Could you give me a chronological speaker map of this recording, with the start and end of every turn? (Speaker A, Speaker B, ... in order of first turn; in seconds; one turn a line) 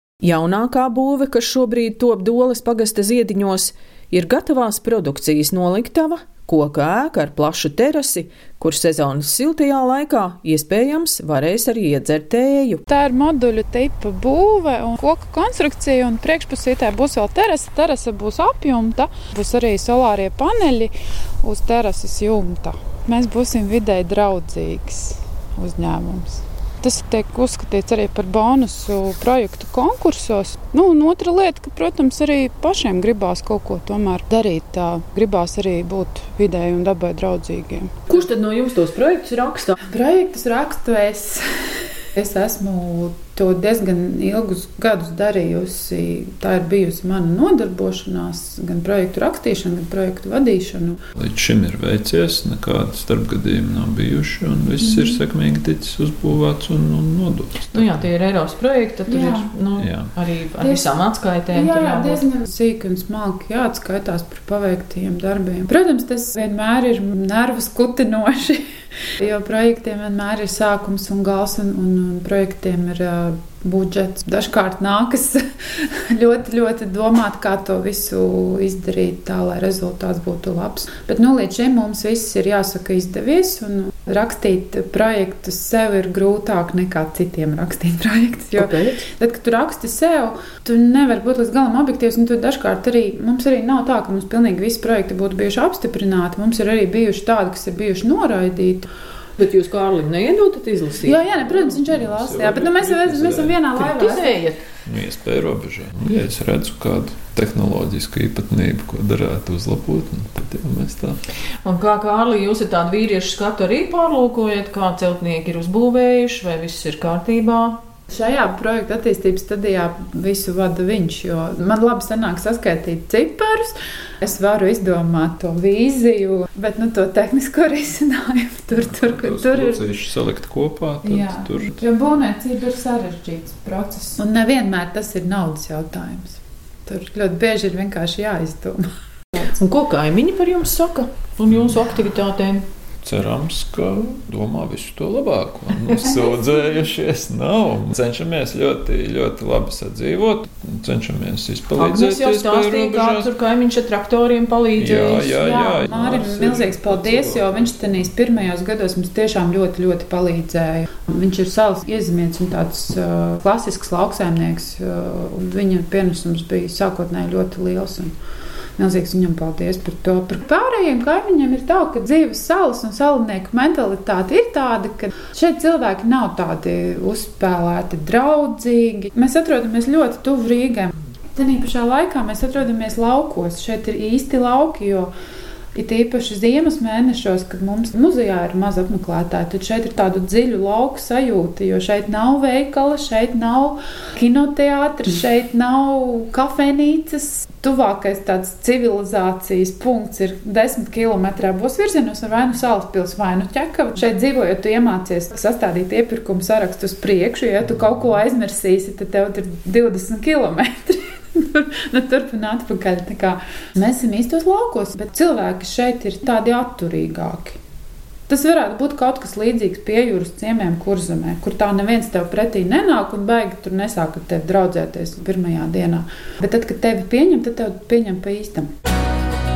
Speaker A: 0.2-12.8
Speaker B: 12.9-38.1
Speaker A: 38.1-39.8
Speaker B: 39.8-51.0
Speaker C: 51.1-58.1
Speaker B: 54.9-55.2
Speaker A: 57.7-62.2
Speaker B: 59.1-59.5
Speaker C: 59.8-60.1
Speaker B: 60.6-60.9
Speaker B: 61.5-68.7
Speaker B: 69.2-98.9
Speaker A: 88.6-89.0
Speaker A: 99.4-101.2
Speaker B: 101.0-104.4
Speaker C: 101.5-103.6
Speaker A: 103.8-104.6
Speaker C: 104.8-111.2
Speaker A: 111.6-117.8
Speaker B: 118.1-129.8
Speaker C: 128.8-131.8
Speaker B: 131.0-138.9
Speaker A: 139.4-142.7
Speaker C: 143.0-153.3
Speaker A: 151.8-155.4
Speaker C: 154.8-157.8
Speaker B: 155.4-168.1
Speaker B: 168.8-185.1
Speaker B: 185.7-217.6
Speaker B: 218.3-228.7